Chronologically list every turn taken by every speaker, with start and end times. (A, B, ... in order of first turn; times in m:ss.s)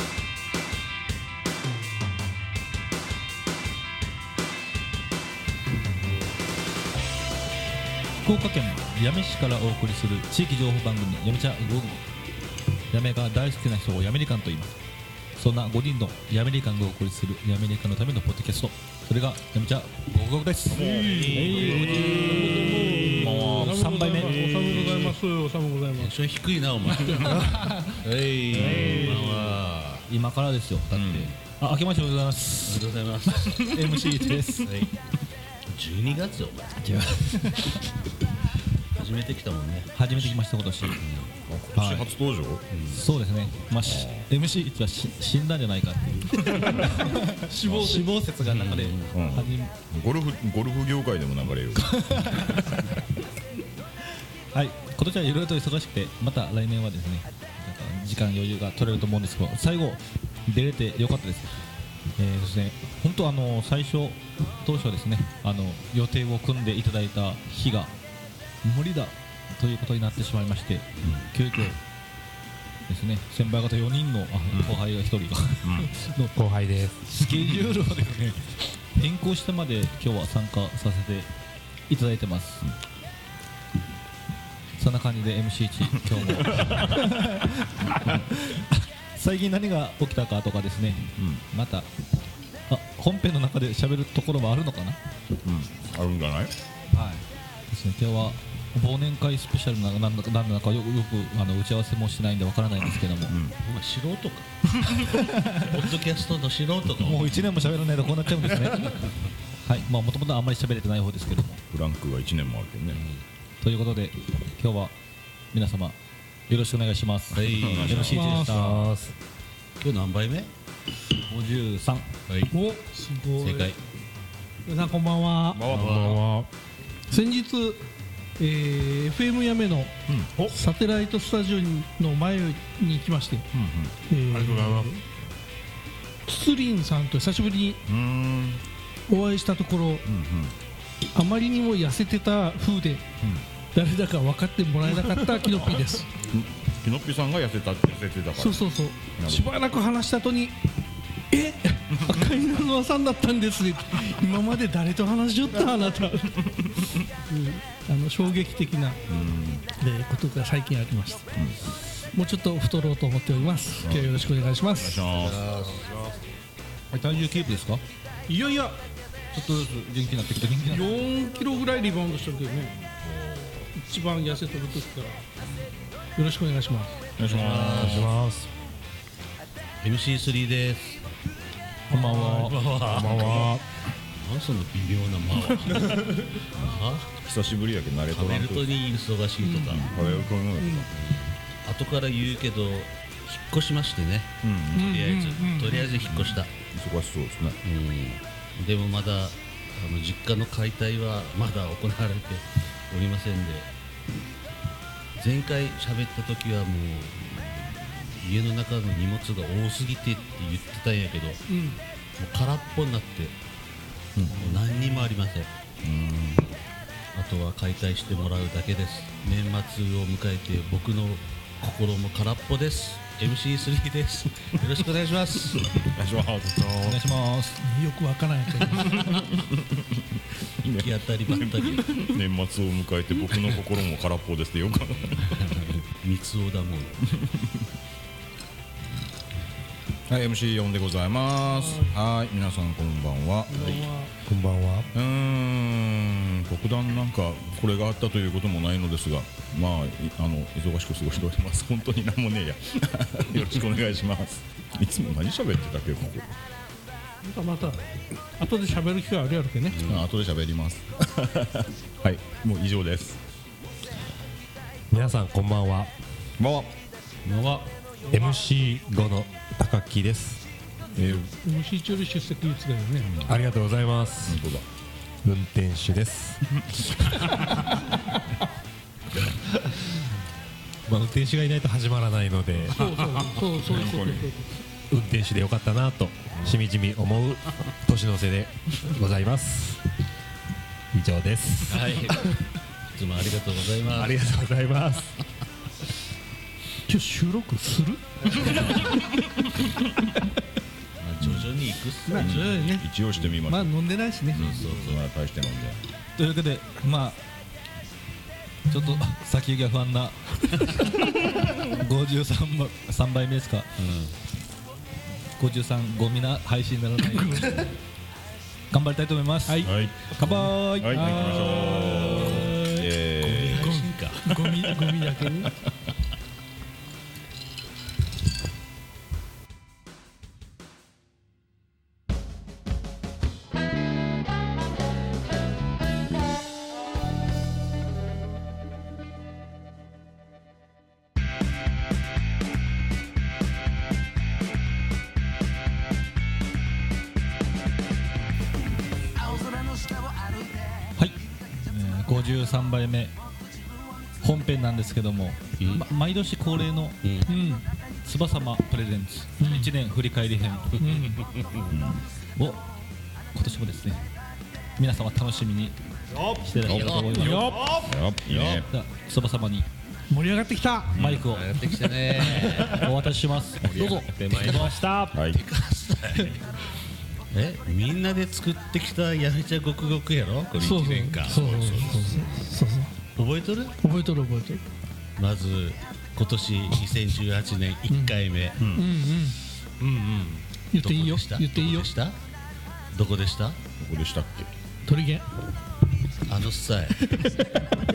0:08.2-0:12.0 A
0:12.9-0:14.7 A
0:15.4-0:25.1 A
0:20.7-0:23.8 B
0:20.7-0:22.4 C
0:21.9-0:26.1 D
0:25.9-0:30.1 C
0:27.1-0:27.6 D
0:28.5-0:29.5 A
0:30.1-0:34.9 A
0:30.9-0:31.3 B
0:32.6-0:33.8 C
0:34.6-0:34.9 C
0:35.7-0:36.8 C
0:36.8-0:37.8 A
0:38.9-0:40.4 C
0:39.9-0:41.0 A
0:40.9-0:41.3 C
0:41.5-0:42.6 B
0:41.8-0:42.1 A
0:42.7-0:43.0 C
0:42.9-0:49.7 A
0:43.8-0:44.3 B
0:47.5-0:48.1 B
0:48.4-0:49.2 C
0:49.1-0:52.4 B
0:51.8-0:52.8 A
0:54.5-1:01.6 A
1:02.2-1:07.9 A
1:08.6-1:11.8 A
1:12.9-1:16.4 A
1:14.5-1:14.8 B
1:15.6-1:15.9 B
1:16.3-1:17.0 E
1:17.0-1:21.3 A
1:21.9-1:22.6 A
1:24.8-1:31.9 A
1:26.3-1:26.7 B
1:31.2-1:31.4 B
1:32.7-1:35.0 A
1:35.4-1:36.5 B
1:36.9-1:43.4 A
1:43.2-1:43.6 B
1:43.6-1:45.0 C
1:45.0-1:45.7 A
1:45.5-1:47.4 C
1:47.0-1:49.1 A
1:49.6-1:51.6 A
1:51.7-1:53.0 B
1:52.9-1:53.2 C
1:53.6-1:54.9 A
1:55.5-1:56.0 A
1:56.5-1:58.9 A
1:57.3-1:58.3 C
1:57.4-1:58.4 B
1:58.1-1:58.7 D
1:58.4-1:59.1 E
1:59.8-2:00.5 C
2:01.2-2:02.1 A
2:02.5-2:03.8 D
2:03.4-2:03.8 C
2:04.6-2:05.7 D
2:05.5-2:06.2 B
2:05.7-2:06.5 E
2:07.1-2:07.8 D
2:08.4-2:13.5 D
2:13.5-2:13.9 B
2:14.1-2:15.0 D
2:14.3-2:14.9 E
2:16.2-2:17.8 D
2:17.8-2:18.6 B
2:19.1-2:20.0 D
2:20.0-2:20.5 B
2:21.1-2:23.0 D
2:23.7-2:26.1 D
2:25.6-2:29.5 B
2:28.4-2:30.6 D
2:31.3-2:36.5 D
2:36.5-2:37.0 B
2:37.2-2:39.0 D
2:39.1-2:39.6 B
2:39.8-2:41.3 D
2:42.1-2:45.0 D
2:43.8-2:45.5 B
2:45.1-2:46.0 C
2:46.9-2:47.8 A
2:48.3-2:48.8 D
2:49.3-2:50.9 A
2:50.7-2:52.7 D
2:53.0-2:53.7 C
2:53.7-2:55.2 D
2:56.2-2:57.0 D
2:57.2-2:58.1 B
2:57.2-2:58.1 C
2:57.8-2:58.5 E
2:59.8-3:01.0 C
3:01.9-3:02.6 A
3:01.9-3:02.5 D
3:02.3-3:03.6 C
3:02.8-3:03.6 E
3:04.1-3:07.1 C
3:06.6-3:08.7 B
3:08.1-3:10.0 C
3:09.4-3:10.9 D
3:09.6-3:10.9 B
3:10.9-3:16.5 C
3:14.4-3:15.0 B
3:14.7-3:15.8 D
3:15.8-3:17.6 B
3:17.6-3:23.7 C
3:25.2-3:31.4 C
3:31.5-3:31.8 D
3:32.2-3:33.3 C
3:34.2-3:34.6 B
3:34.3-3:35.5 C
3:35.8-3:36.5 B
3:37.1-3:45.7 C
3:45.9-3:47.0 B
3:46.8-3:47.6 A
3:47.6-3:49.2 D
3:48.7-3:55.5 B
3:50.7-3:52.1 C
3:55.3-3:57.1 C
3:57.1-3:57.6 B
4:00.1-4:03.9 B
4:03.5-4:04.1 D
4:04.3-4:04.9 E
4:04.9-4:16.3 B
4:17.2-4:19.8 D
4:19.7-4:20.0 C
4:19.8-4:23.2 B
4:24.9-4:25.9 E
4:26.4-4:26.7 B
4:27.2-4:27.7 C
4:28.1-4:30.4 E
4:30.9-4:31.3 B
4:31.4-4:33.2 D
4:33.0-4:33.4 B
4:33.2-4:34.4 E
4:34.2-4:34.6 B
4:35.2-4:36.6 E
4:40.9-4:42.8 E
4:42.7-4:44.5 D
4:43.7-4:44.3 B
4:44.9-4:49.8 E
4:50.9-4:52.3 E
4:51.7-4:52.4 C
4:52.9-4:54.2 C
4:53.9-4:55.2 E
4:56.9-4:58.8 D
5:01.0-5:02.6 C
5:01.2-5:01.5 B
5:02.1-5:02.9 D
5:02.1-5:03.7 B
5:03.5-5:04.6 D
5:04.3-5:05.8 B
5:04.4-5:05.0 C
5:06.2-5:07.2 A
5:08.7-5:13.7 A
5:13.8-5:14.1 C
5:15.4-5:17.6 A
5:18.7-5:21.0 A
5:19.5-5:19.8 D
5:20.8-5:23.9 B
5:20.9-5:22.9 D
5:21.9-5:22.5 C
5:23.2-5:24.7 C
5:24.2-5:25.5 D
5:51.0-5:53.1 A
5:54.2-5:57.0 A
5:55.6-5:55.8 C
5:57.0-5:57.4 C
5:57.3-5:57.6 D
5:58.0-6:01.2 A
5:59.4-5:59.7 D
6:00.8-6:01.2 D
6:01.2-6:01.7 C
6:01.7-6:02.0 B
6:02.4-6:02.6 A
6:03.3-6:04.0 A
6:04.8-6:05.7 A
6:06.1-6:08.0 E
6:06.3-6:07.6 A
6:06.6-6:07.4 C
6:07.2-6:07.5 D
6:07.7-6:08.7 B
6:08.3-6:09.7 A
6:10.1-6:11.0 D
6:10.9-6:11.3 B
6:11.0-6:11.6 A
6:11.1-6:12.9 C
6:12.5-6:14.8 A
6:13.6-6:15.2 E
6:15.1-6:15.4 B
6:15.2-6:16.4 C
6:17.3-6:22.5 C
6:20.6-6:22.9 D
6:23.2-6:23.8 C
6:23.8-6:24.6 D
6:25.2-6:28.6 C
6:27.9-6:29.4 D
6:28.6-6:28.9 B
6:29.8-6:30.4 E
6:30.7-6:31.9 D
6:30.8-6:32.2 C
6:32.9-6:33.6 C
6:33.8-6:34.5 B
6:34.8-6:35.2 D
6:36.3-6:37.1 C